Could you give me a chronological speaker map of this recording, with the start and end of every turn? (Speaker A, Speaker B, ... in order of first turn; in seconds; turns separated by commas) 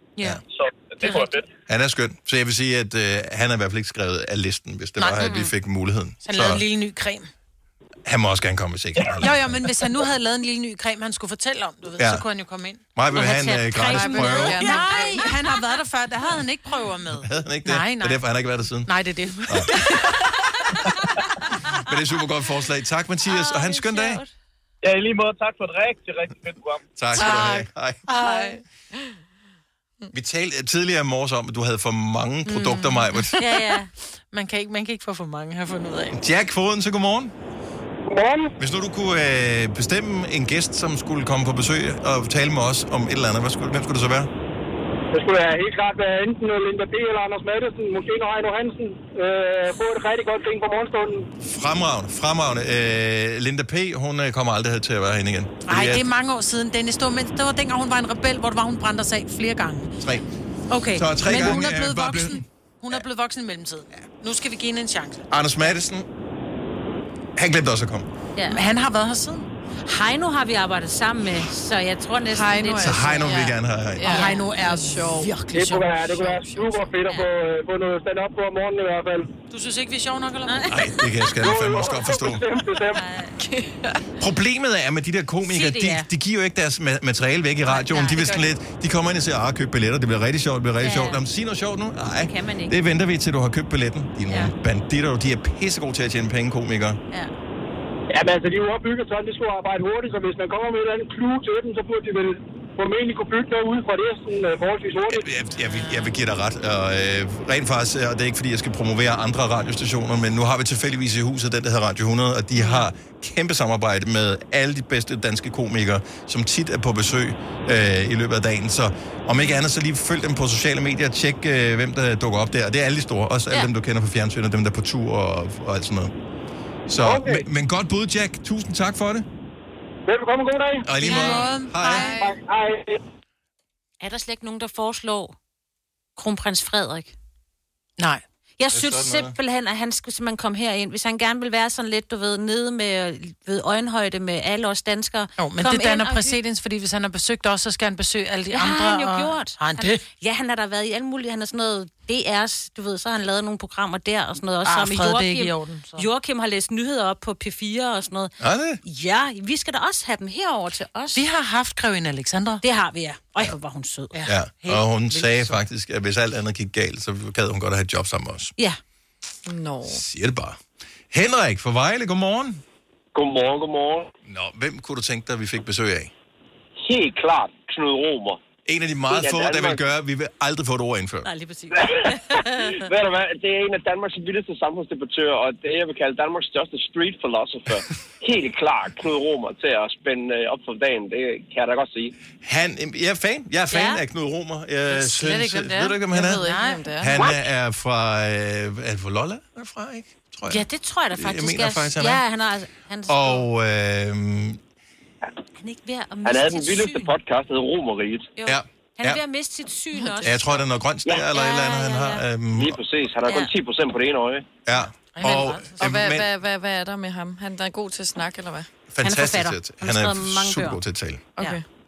Speaker A: 0.5-1.5, Speaker B: 1.0-1.3, Speaker C: 1.6-6.6, Speaker D: 5.0-5.2, Speaker B: 5.1-5.5, Speaker D: 6.2-7.3, Speaker C: 8.0-9.7, Speaker D: 9.2-12.8, Speaker C: 12.0-12.2, Speaker C: 12.9-14.6, Speaker B: 13.1-15.2, Speaker E: 13.8-15.3, Speaker D: 14.6-18.2, Speaker C: 17.2-18.9, Speaker D: 18.9-20.2, Speaker C: 19.4-19.7, Speaker C: 21.7-24.2, Speaker B: 23.2-24.3, Speaker A: 24.8-26.8, Speaker C: 26.9-28.1, Speaker E: 27.1-29.1, Speaker B: 28.1-28.5, Speaker D: 28.1-28.4, Speaker C: 30.1-33.5, Speaker B: 33.4-33.9, Speaker D: 34.3-36.2, Speaker C: 36.1-37.3, Speaker F: 38.1-38.5, Speaker C: 38.6-44.3, Speaker F: 45.1-51.3, Speaker C: 51.4-56.0, Speaker D: 55.7-59.9, Speaker C: 60.0-60.3, Speaker B: 60.7-61.6, Speaker C: 60.9-63.0, Speaker D: 61.2-65.3, Speaker C: 65.3-66.1, Speaker C: 67.3-68.1, Speaker B: 68.3-68.6, Speaker D: 68.5-69.5, Speaker B: 69.8-73.4, Speaker E: 72.3-75.4, Speaker C: 72.8-74.1, Speaker B: 74.1-74.5, Speaker D: 74.1-76.0, Speaker F: 75.5-79.3, Speaker E: 76.0-76.9, Speaker D: 79.5-80.7, Speaker B: 80.5-80.8, Speaker C: 80.7-82.5, Speaker F: 81.4-83.0, Speaker B: 82.8-83.3, Speaker E: 83.4-84.1, Speaker C: 84.2-97.0, Speaker B: 85.4-86.1, Speaker B: 87.6-88.5, Speaker B: 90.8-91.2, Speaker B: 92.2-92.7, Speaker F: 98.1-105.2, Speaker C: 105.1-126.1, Speaker D: 105.6-106.1, Speaker C: 126.9-129.2, Speaker F: 127.0-127.4, Speaker F: 130.1-130.9, Speaker C: 130.8-132.1, Speaker D: 131.0-132.0, Speaker B: 131.0-132.1, Speaker E: 131.8-132.4, Speaker F: 132.2-133.0, Speaker B: 134.0-135.3, Speaker B: 136.2-137.1, Speaker B: 138.6-146.4, Speaker C: 138.7-139.3, Speaker D: 145.4-150.0, Speaker B: 148.5-158.3, Speaker D: 154.6-156.1, Speaker C: 158.4-158.8, Speaker B: 158.8-161.2, Speaker D: 161.1-162.6, Speaker B: 162.6-164.2, Speaker D: 164.1-165.6, Speaker C: 164.2-168.5, Speaker E: 169.4-170.0, Speaker C: 169.8-170.6, Speaker C: 171.1-172.6, Speaker G: 173.1-174.1, Speaker C: 174.2-176.1, Speaker G: 176.8-178.4, Speaker C: 178.7-181.3, Speaker G: 179.1-179.8, Speaker B: 181.2-182.9, Speaker G: 181.7-192.1, Speaker C: 192.4-196.5, Speaker B: 193.7-194.0, Speaker D: 194.9-197.0, Speaker E: 196.1-197.3, Speaker C: 197.0-202.2, Speaker B: 200.4-203.5, Speaker C: 203.1-204.6, Speaker B: 205.6-207.1, Speaker G: 206.2-208.3, Speaker B: 208.3-210.6, Speaker C: 208.4-209.2, Speaker E: 210.0-210.2, Speaker C: 210.2-212.8, Speaker B: 211.2-212.2, Speaker G: 212.5-214.4, Speaker B: 213.2-213.5, Speaker C: 214.7-216.3, Speaker D: 215.1-215.9, Speaker E: 215.8-218.7, Speaker C: 218.9-221.3, Speaker B: 219.0-220.8, Speaker E: 221.3-221.6